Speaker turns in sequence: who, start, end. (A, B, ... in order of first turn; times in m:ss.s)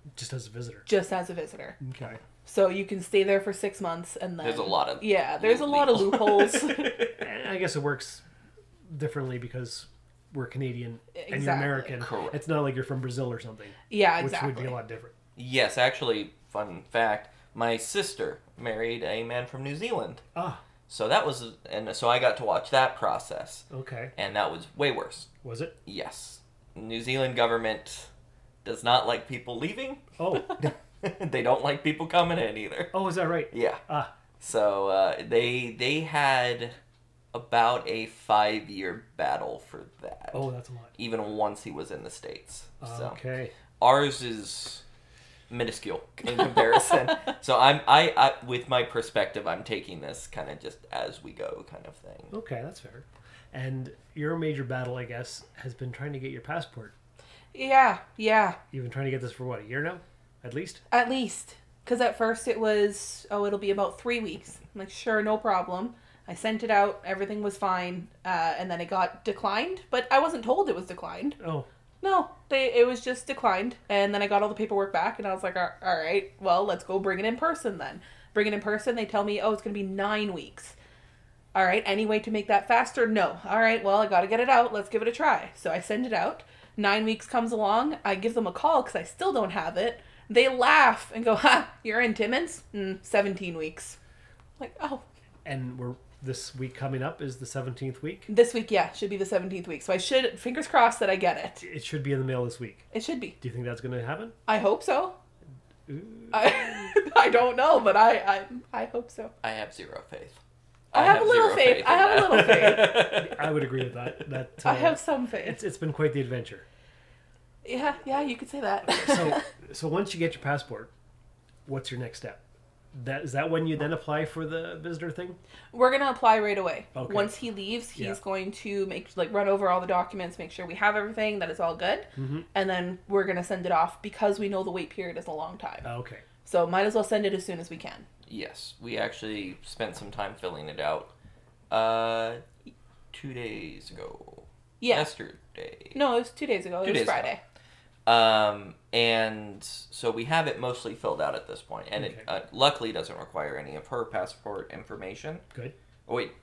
0:00.2-0:00.9 A
0:00.8-0:01.8 B
0:01.8-0:02.2 A
0:02.4-0:06.9 B
0:04.4-0:07.2 C
0:07.2-0:08.2 A
0:08.9-0:15.1 A
0:11.1-0:11.9 B
0:12.0-0:12.4 C
0:13.9-0:14.8 B
0:15.4-0:20.2 C
0:20.3-0:20.6 A
0:20.9-0:23.6 C
0:23.7-0:24.1 A
0:24.2-0:25.3 C
0:25.4-0:25.7 A
0:25.8-0:28.1 C
0:28.6-0:32.9 C
0:30.2-0:30.6 A
0:32.9-0:34.1 A
0:33.5-0:33.8 C
0:34.4-0:36.8 C
0:37.3-0:43.2 C
0:40.3-0:40.9 A
0:42.8-0:43.5 A
0:43.8-0:44.8 C
0:45.5-0:52.3 C
0:52.3-0:56.9 A
0:57.5-0:58.6 B
0:58.7-1:00.8 A
1:00.9-1:11.4 B
1:11.4-1:11.7 A
1:12.0-1:20.8 B
1:21.5-1:34.0 B
1:34.6-1:35.0 B
1:35.4-1:38.3 A
1:38.3-1:41.6 B
1:41.6-1:42.9 A
1:42.9-1:43.4 B
1:43.4-1:44.4 A
1:44.5-1:45.1 B
1:45.9-1:46.9 A
1:46.3-1:49.3 B
1:49.4-1:50.4 C
1:50.9-1:53.6 C
1:50.9-1:52.9 B
1:52.5-1:56.6 A
1:54.6-1:55.6 B
1:57.6-1:59.4 B
1:58.9-2:00.9 A
2:01.6-2:02.4 A
2:02.9-2:05.4 A
2:05.7-2:15.9 B
2:06.9-2:07.4 A
2:07.9-2:08.2 A
2:12.2-2:12.5 A
2:15.8-2:16.2 A
2:16.4-2:18.0 B
2:18.3-2:21.1 C
2:21.7-2:22.4 C
2:23.1-2:26.0 C
2:24.8-2:25.1 B
2:25.9-2:27.4 B
2:26.8-2:27.3 C
2:28.0-2:35.4 C
2:32.0-2:32.2 A
2:36.1-2:36.3 C